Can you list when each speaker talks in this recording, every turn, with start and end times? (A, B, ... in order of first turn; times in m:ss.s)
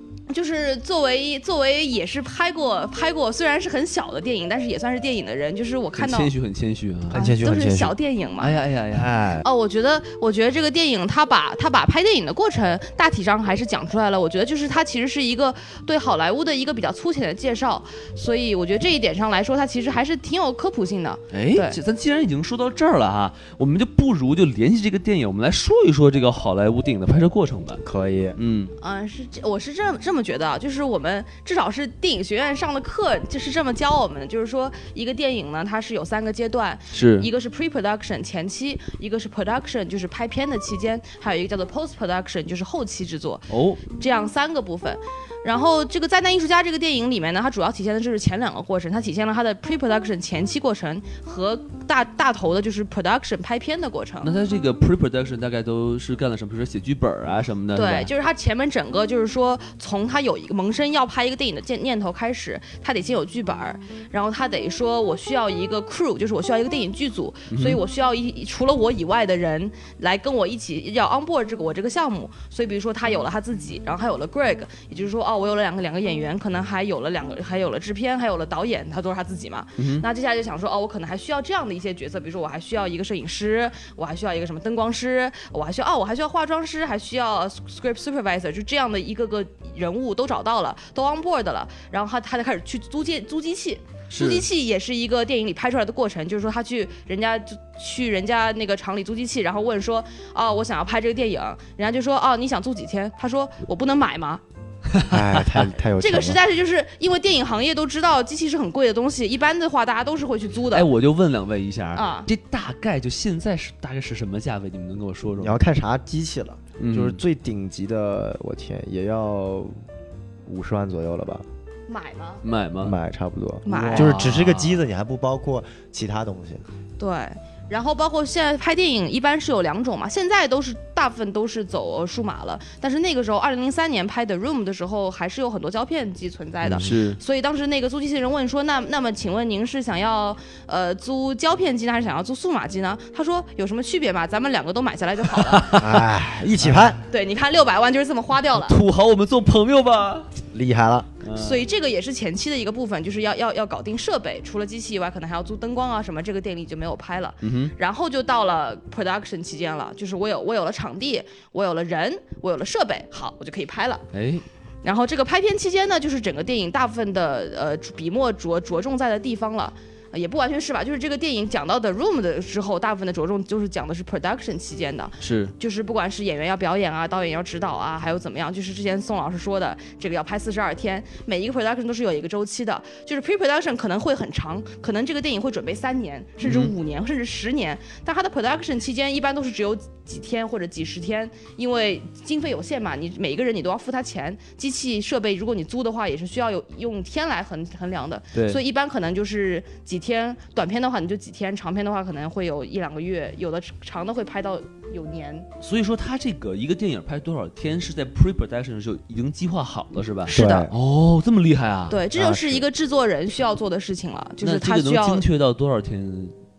0:00.3-0:06.3 A
0:06.0-0:07.2 B
0:07.1-0:08.0 C
0:07.1-0:08.6 A
0:08.4-0:09.1 B
0:08.9-0:09.4 C
0:09.4-0:21.8 A
0:21.3-0:27.8 B
0:27.8-0:28.4 C
0:28.4-0:28.7 B
0:28.8-0:54.3 A
0:36.9-0:37.3 B
0:43.5-0:43.8 B
0:54.2-0:58.1 B
0:57.8-1:44.4 A
1:07.5-1:07.8 B
1:19.8-1:20.0 B
1:34.1-1:34.5 B
1:44.9-1:45.6 B
1:45.1-1:46.4 C
1:46.0-1:50.9 A
1:50.7-1:55.6 B
1:52.0-1:52.3 A
1:55.4-1:59.8 C
1:56.8-1:57.2 B
2:00.5-2:01.4 C
2:01.9-2:02.4 A
2:02.4-2:03.0 B
2:02.8-2:06.6 C
2:03.7-2:04.1 A
2:03.7-2:04.8 B
2:07.0-2:25.7 A
2:16.8-2:17.2 B
2:25.4-2:26.1 B
2:25.8-2:27.0 C
2:26.6-2:26.9 B
2:27.1-2:28.8 A
2:28.6-2:30.3 B
2:30.5-2:31.1 C
2:31.2-2:31.6 B
2:31.4-2:44.0 A
2:37.4-2:37.7 B
2:44.1-2:44.4 B
2:44.8-3:25.5 A
2:55.2-2:55.5 B
3:06.4-3:06.8 B
3:18.3-3:18.6 B
3:25.6-3:32.1 B
3:30.3-3:30.7 A
3:30.3-3:30.7 C
3:31.9-3:35.2 A
3:32.2-3:32.6 C
3:34.4-3:36.3 B